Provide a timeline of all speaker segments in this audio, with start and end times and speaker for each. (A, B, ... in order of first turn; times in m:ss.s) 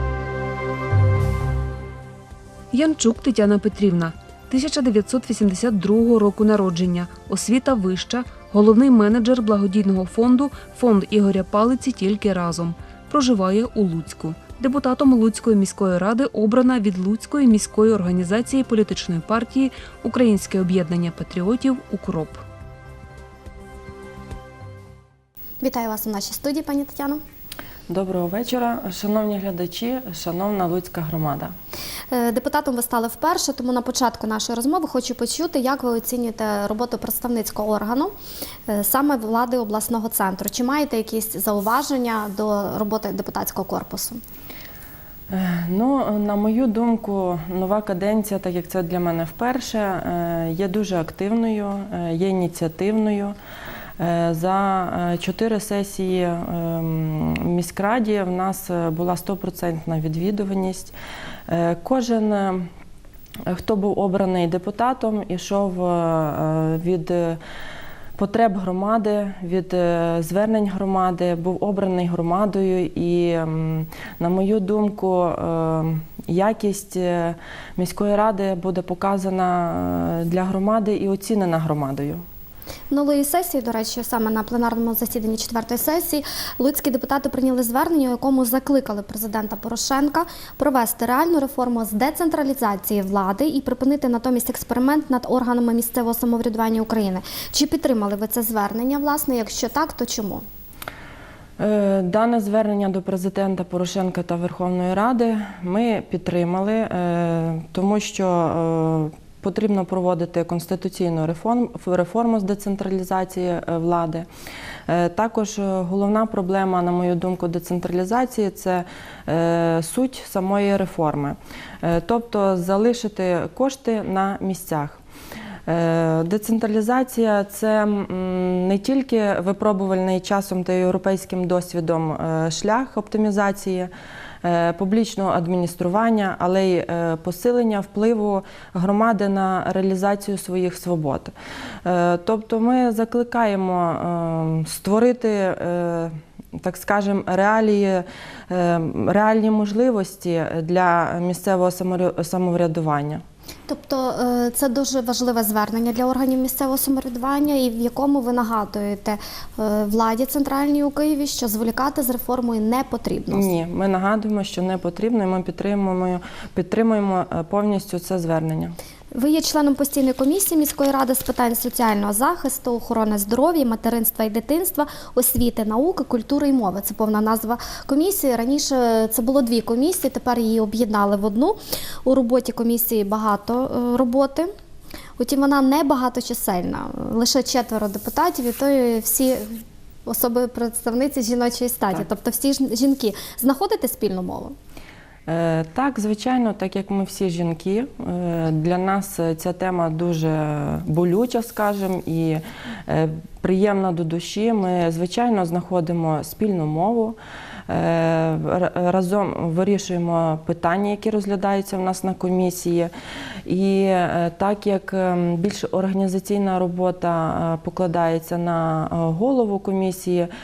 0:02.7-0:22.4 A
0:25.6-0:27.2 B
0:27.9-0:31.5 C
0:32.1-0:38.1 B
0:38.7-0:44.2 B
0:45.3-0:53.4 C
0:54.0-1:00.9 C
1:01.5-1:02.7 C
1:03.5-1:07.4 C
1:08.2-1:22.2 C
1:22.9-1:40.4 B
1:41.6-1:54.3 C
1:54.9-2:05.0 C
2:05.7-2:13.9 C
2:14.4-2:33.2 C
2:33.7-2:43.5 B
2:43.3-2:48.8 C
2:49.1-3:04.5 B
3:05.2-3:14.6 B
3:15.3-3:27.2 C
3:27.7-3:32.9 C
3:33.5-3:40.3 C